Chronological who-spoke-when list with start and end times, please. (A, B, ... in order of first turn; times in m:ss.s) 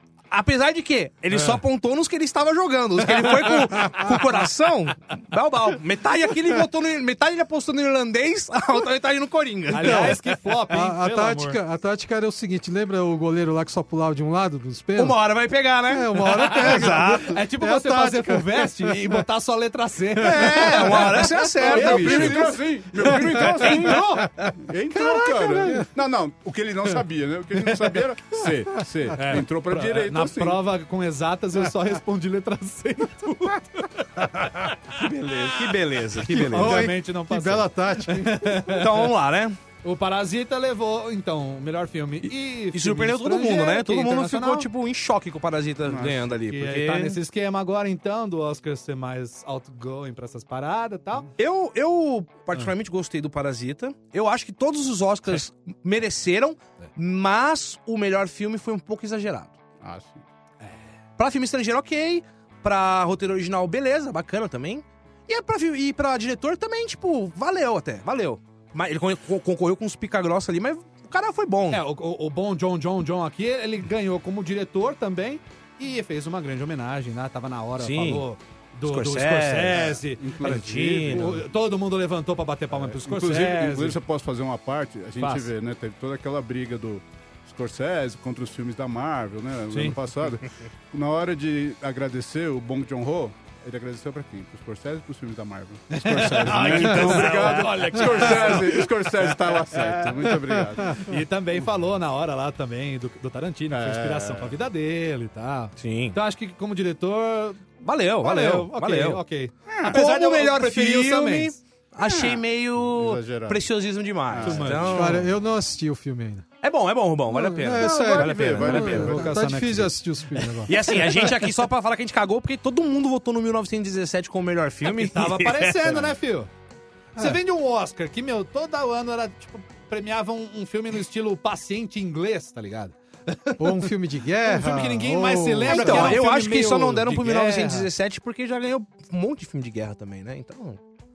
0:00.3-0:10.2 A
0:01.3-0:01.6 B
0:09.7-0:11.6 B
0:09.8-0:15.2 C
0:15.0-0:17.4 A
0:15.9-0:19.2 C
0:17.0-0:25.6 B
0:20.2-0:22.6 A
0:21.4-0:30.6 D
0:23.6-0:24.2 A
0:29.2-0:39.1 B
0:35.0-0:36.9 A
0:36.3-0:38.7 C
0:38.7-0:39.6 A
0:39.8-0:44.7 B
0:42.7-0:47.2 A
0:45.9-0:46.3 D
0:46.4-0:51.3 B
0:51.4-0:59.6 A
0:59.8-1:00.2 D
1:01.2-1:11.8 A
1:11.7-1:24.0 B
1:17.8-1:18.2 A
1:18.9-1:21.4 A
1:19.7-1:21.4 D
1:22.7-1:41.2 D
1:25.2-1:25.5 B
1:29.7-1:30.0 B
1:35.9-1:40.2 B
1:36.0-1:37.9 A
1:40.8-1:47.7 B
1:43.7-1:44.6 D
1:45.8-1:46.2 A
1:47.8-1:49.2 A
1:48.2-1:51.6 B
1:49.7-1:50.0 D
1:49.8-1:55.3 A
1:52.0-1:53.6 D
1:54.3-1:55.1 D
1:54.4-1:55.0 B
1:54.9-1:56.4 C
1:56.6-1:59.2 A
1:57.3-2:00.8 C
1:57.7-1:59.7 D
1:58.8-2:00.0 B
2:00.7-2:06.0 A
2:04.9-2:06.5 B
2:07.2-2:17.9 B
2:13.6-2:16.2 C
2:15.6-2:20.8 A